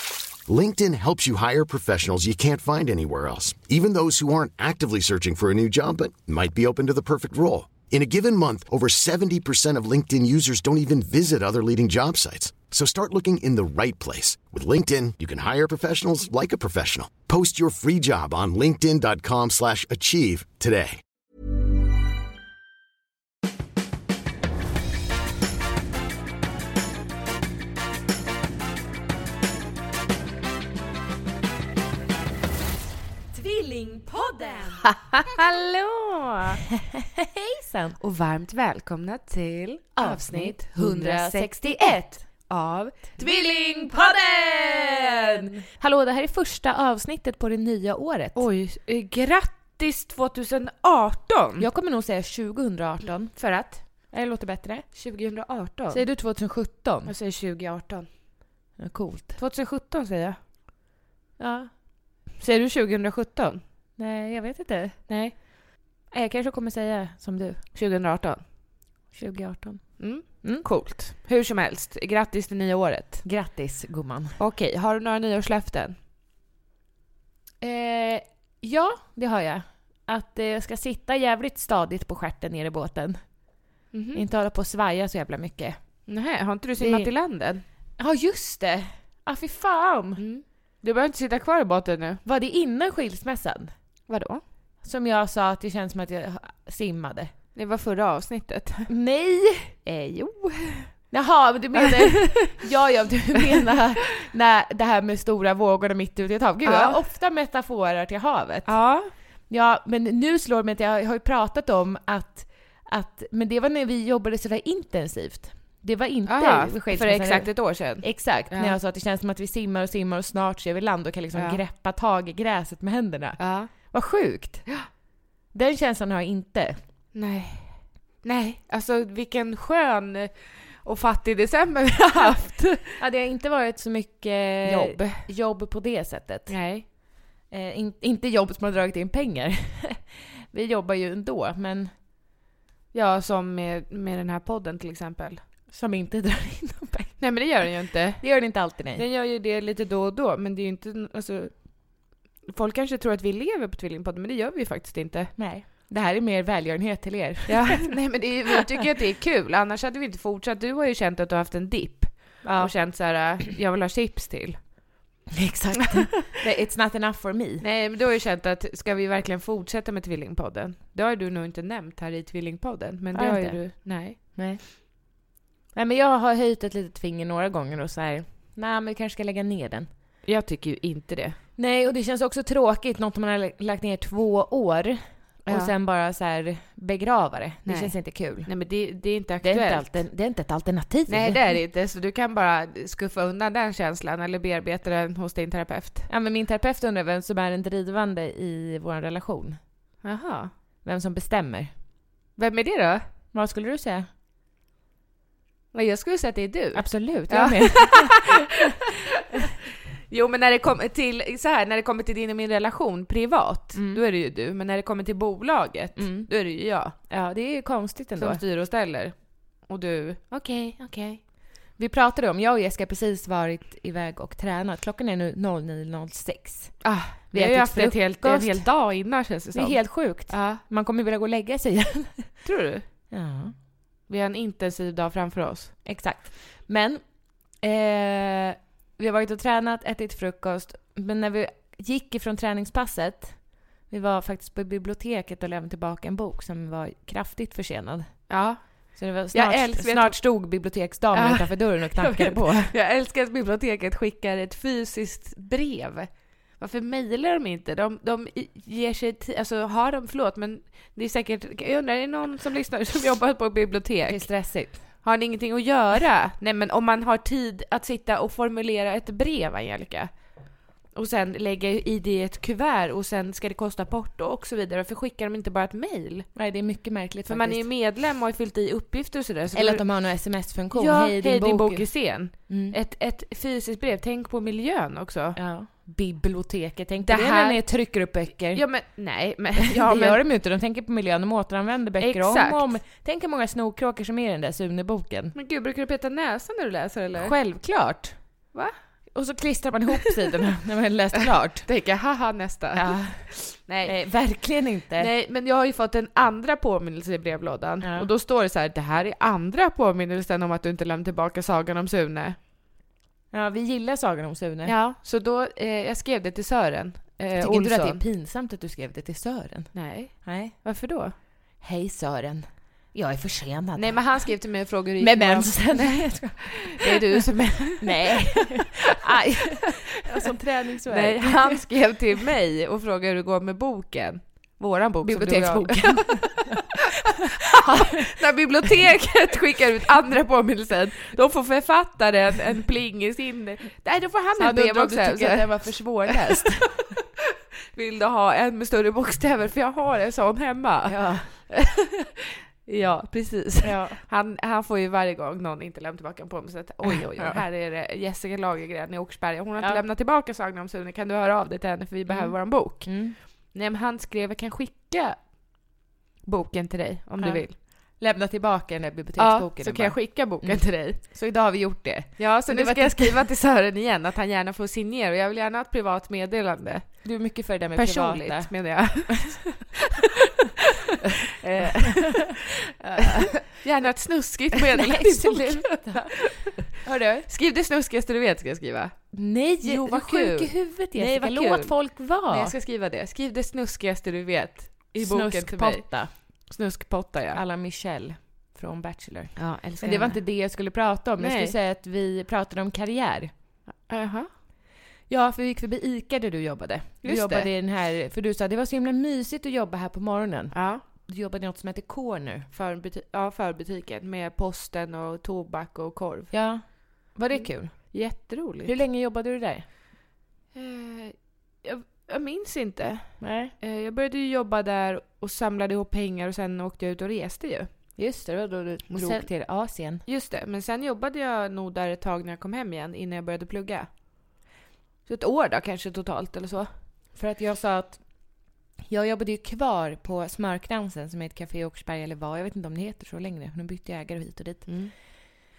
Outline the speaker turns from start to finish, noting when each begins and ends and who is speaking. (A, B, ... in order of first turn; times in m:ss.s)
0:00.5-0:21.0 A
0:33.3-0:34.8 B
0:34.8-0:36.6 C
0:36.8-0:38.0 B
0:38.0-0:43.9 C
0:40.0-0:42.3 B
0:43.2-0:48.4 B
0:48.4-0:51.6 C
0:51.6-0:54.9 B
0:53.4-0:53.8 C
0:54.9-0:56.0 C
0:55.9-0:57.1 B
0:57.1-0:58.1 C
0:58.8-0:59.4 B
0:59.4-1:00.4 C
1:01.4-1:01.7 B
1:02.4-1:03.6 C
1:04.0-1:07.6 B
1:07.8-1:08.4 C
1:09.1-1:10.7 B
1:10.0-1:13.2 C
1:13.2-1:14.4 B
1:14.4-1:16.0 C
1:17.6-1:23.5 B
1:23.9-1:24.2 C
1:24.1-1:25.8 B
1:26.1-1:27.6 C
1:26.8-1:27.1 B
1:28.0-1:30.2 B
1:30.2-1:32.2 C
1:32.2-1:33.7 B
1:34.1-1:34.4 C
1:34.8-1:37.3 B
1:37.6-1:38.9 C
1:38.9-1:40.0 B
1:39.9-1:40.9 C
1:41.1-1:48.8 B
1:46.6-1:47.0 C
1:48.7-1:49.1 C
1:49.5-2:04.6 B
1:56.3-1:58.8 C
2:01.3-2:01.6 C
2:03.4-2:03.7 C
2:05.5-2:06.8 B
2:07.1-2:13.0 C
2:13.0-2:16.6 B
2:14.6-2:15.3 C
2:16.5-2:16.9 C
2:17.5-2:22.0 B
2:22.9-2:25.4 C
2:25.7-2:27.7 B
2:27.2-2:28.3 C
2:28.2-2:29.0 B
2:28.9-2:35.4 C
2:35.4-2:37.9 B
2:37.5-2:44.8 C
2:42.4-2:42.7 B
2:45.3-2:47.6 B
2:47.6-2:54.2 C
2:53.1-2:54.6 B
2:55.7-2:59.9 B
3:00.3-3:01.4 C
3:01.6-3:08.5 B
3:05.4-3:05.7 C
3:07.6-3:10.0 C
3:09.4-3:11.6 B
3:11.1-3:16.1 C
3:16.1-3:19.6 B
3:20.0-3:20.5 C
3:20.8-3:21.7 B
3:22.4-3:23.0 C
3:23.3-3:24.1 B
3:25.7-3:28.3 C
3:26.8-3:28.2 B
3:30.1-3:37.0 C
3:33.7-3:34.0 B
3:36.0-3:36.3 B
3:37.0-3:38.4 B
3:38.2-3:41.2 C
3:41.8-3:48.7 B
3:46.8-3:50.6 C
3:49.5-3:52.4 B
3:52.4-3:52.8 C
3:53.1-3:53.6 B
3:54.1-3:55.7 C
3:55.8-4:08.4 B
4:08.3-4:10.2 C
4:09.0-4:12.7 B
4:11.1-4:30.3 C
4:24.1-4:24.9 B
4:30.9-4:36.3 C
4:36.4-4:37.7 B
4:37.2-4:45.4 C
4:39.5-4:42.8 B
4:45.4-4:48.8 B
4:47.0-4:47.7 C
4:48.5-4:50.2 C
4:49.6-4:55.4 B
4:52.0-4:52.8 C
4:55.4-4:57.4 C
4:57.2-4:58.2 B
4:59.1-5:01.7 B
5:01.6-5:04.3 C
5:02.7-5:05.1 B
5:05.0-5:12.4 C
5:07.8-5:08.1 B
5:13.3-5:14.8 B
5:14.7-5:18.0 C
5:17.4-5:20.6 B
5:19.7-5:21.1 C
5:21.6-5:24.3 B
5:23.8-5:28.6 C
5:25.0-5:27.2 B
5:27.8-5:31.6 B
5:30.9-5:36.6 C
5:35.0-5:36.8 B
5:37.5-5:47.0 C
5:44.4-5:46.8 B
5:47.7-6:05.7 C
5:50.8-5:51.3 B
5:53.6-5:54.0 B
5:56.8-5:57.4 B
5:59.6-5:59.8 B
6:02.1-6:03.2 B
6:06.2-6:07.6 C
6:07.2-6:13.2 B
6:09.2-6:11.0 C
6:12.2-6:19.7 C
6:17.0-6:19.4 B
6:21.3-6:22.4 C
6:22.8-6:23.3 B
6:23.0-6:26.6 C
6:24.6-6:27.3 B
6:27.3-6:37.4 C
6:29.1-6:32.6 B
6:35.0-6:36.1 B
6:37.3-6:43.3 B
6:39.4-6:40.2 C
6:41.2-6:41.6 C
6:43.8-6:44.3 C
6:45.1-6:52.5 B
6:47.0-6:47.5 C
6:50.5-6:50.8 C
6:52.5-6:56.3 C
6:56.3-6:59.7 B
6:57.3-6:58.7 C
7:00.5-7:07.7 C
7:03.2-7:03.5 B
7:08.0-7:10.0 B
7:08.9-7:13.9 C
7:15.1-7:16.7 C
7:17.2-7:24.8 B
7:24.7-7:24.9 C